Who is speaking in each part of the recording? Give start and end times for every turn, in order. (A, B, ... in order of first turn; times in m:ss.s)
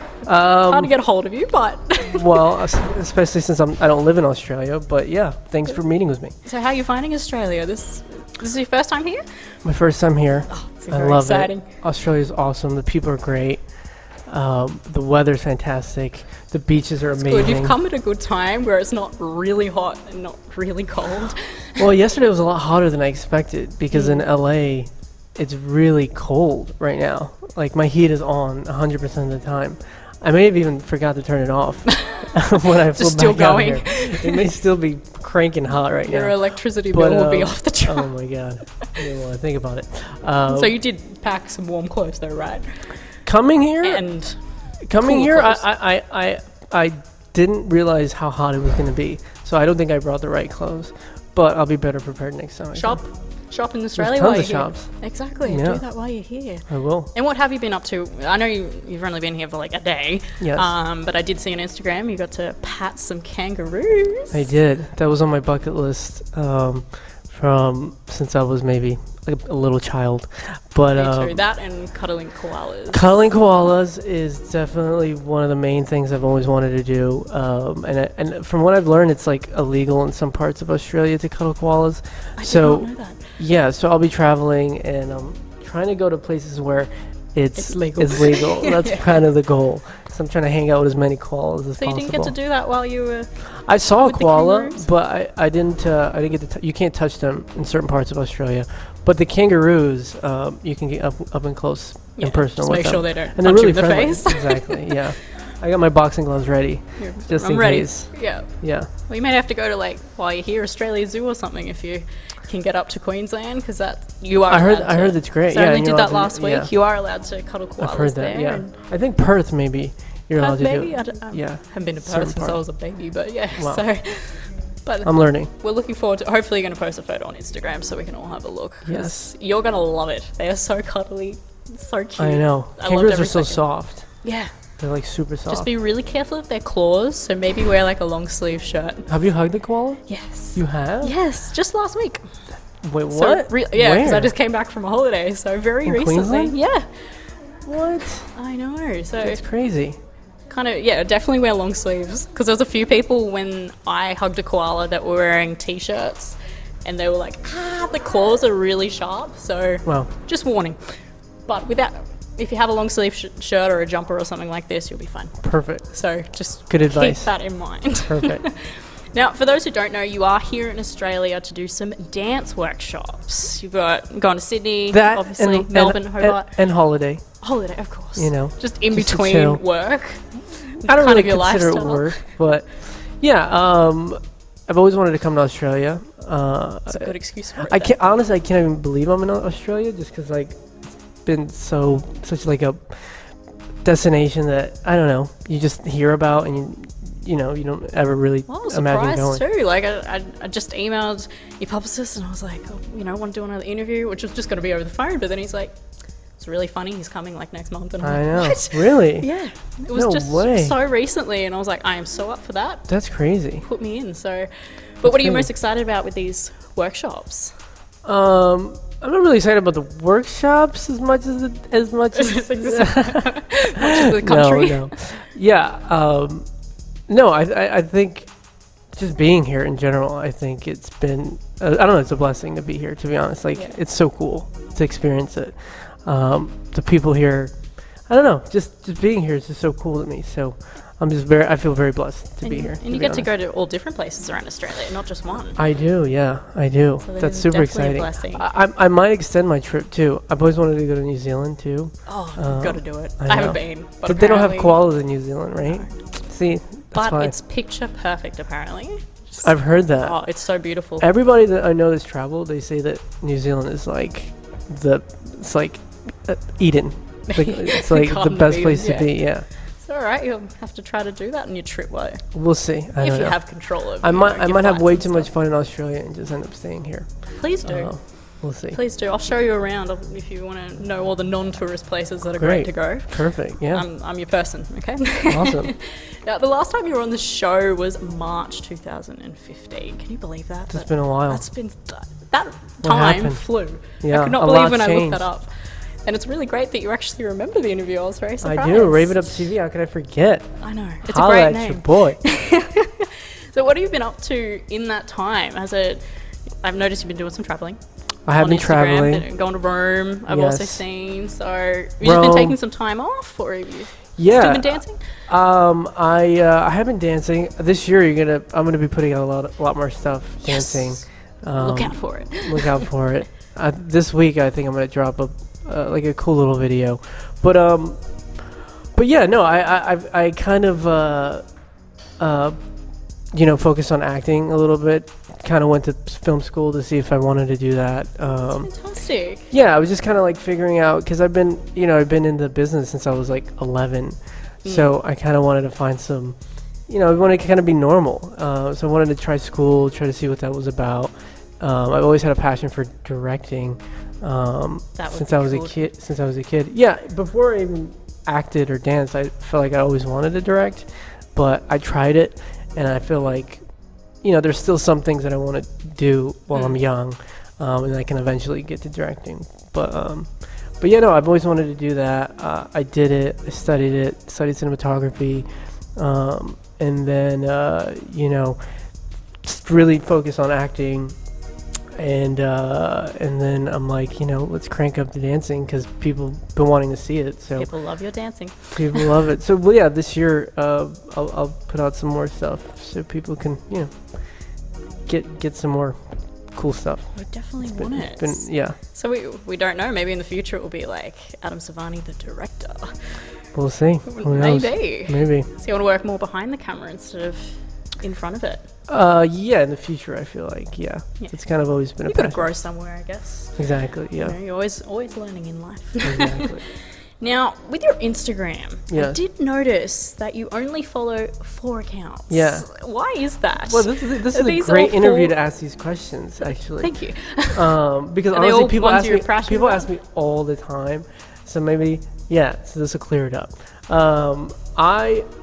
0:00.2-0:00.9 A
0:00.6-0:02.5 B
0:02.0-0:06.3 A
0:06.4-0:09.6 B
0:09.6-0:17.8 A
0:10.5-0:11.7 B
0:17.1-0:21.8 B
0:21.8-0:40.7 A
0:23.9-0:24.2 B
0:31.9-0:32.4 B
0:32.9-0:34.4 B
0:36.0-0:38.2 B
0:40.5-0:43.2 B
0:43.2-0:53.0 A
0:43.8-0:45.6 B
0:52.7-1:04.5 B
0:53.9-0:57.1 A
1:00.4-1:00.7 A
1:04.3-1:11.4 A
1:10.9-1:13.2 B
1:12.9-1:32.4 A
1:22.4-1:23.4 B
1:27.6-1:29.2 B
1:31.8-1:34.9 B
1:33.4-1:48.9 A
1:42.2-1:45.0 B
1:47.0-1:58.7 B
1:54.5-1:56.8 A
1:57.8-2:02.6 A
2:00.4-2:14.6 B
2:03.6-2:04.0 A
2:05.0-2:05.5 A
2:08.8-2:09.3 A
2:12.2-2:14.2 A
2:14.8-2:15.7 A
2:15.5-2:19.1 B
2:19.1-2:21.2 A
2:20.1-2:22.2 B
2:22.8-2:24.3 A
2:23.1-2:27.3 B
2:25.8-2:26.5 A
2:27.6-2:28.3 A
2:28.3-2:29.4 B
2:29.2-2:30.0 A
2:30.5-3:02.3 B
2:45.4-2:48.4 A
2:54.9-2:57.5 A
2:58.1-2:59.6 A
3:00.8-3:19.4 A
3:06.9-3:07.9 B
3:18.5-3:32.9 B
3:28.0-3:29.3 A
3:29.9-3:30.7 A
3:32.9-3:33.6 A
3:33.6-3:37.5 B
3:35.0-3:35.5 A
3:38.0-3:46.5 A
3:42.1-3:45.0 B
3:47.0-4:03.3 A
4:02.4-4:05.6 B
4:05.6-4:17.4 A
4:07.0-4:08.4 B
4:12.0-4:14.8 B
4:15.6-4:16.1 B
4:16.9-4:21.1 B
4:19.4-4:29.5 A
4:27.3-4:32.3 B
4:32.3-4:38.8 A
4:33.0-4:35.3 B
4:37.3-4:59.4 B
4:42.4-4:43.8 A
4:45.3-4:45.7 A
4:50.7-4:51.4 A
4:52.8-4:55.3 A
4:58.4-5:02.2 A
5:00.6-5:15.1 B
5:08.2-5:09.2 A
5:10.3-5:10.8 A
5:12.0-5:12.6 A
5:14.2-5:31.5 A
5:20.4-5:22.9 B
5:32.2-5:32.6 A
5:33.2-5:38.9 A
5:38.5-5:39.5 B
5:39.5-6:03.6 A
5:44.6-5:44.9 B
5:54.9-5:55.9 B
6:04.2-6:21.3 A
6:06.5-6:06.8 B
6:21.9-6:38.8 A
6:27.6-6:29.1 B
6:37.1-6:43.4 B
6:43.5-6:45.5 A
6:44.1-6:48.7 B
6:48.9-6:52.5 A
6:51.2-6:53.6 B
6:53.6-6:54.4 A
6:54.2-7:05.3 B
6:56.0-6:56.6 A
6:58.9-6:59.2 A
7:02.3-7:02.7 A
7:03.6-7:15.3 A
7:06.5-7:07.8 B
7:08.3-7:09.9 B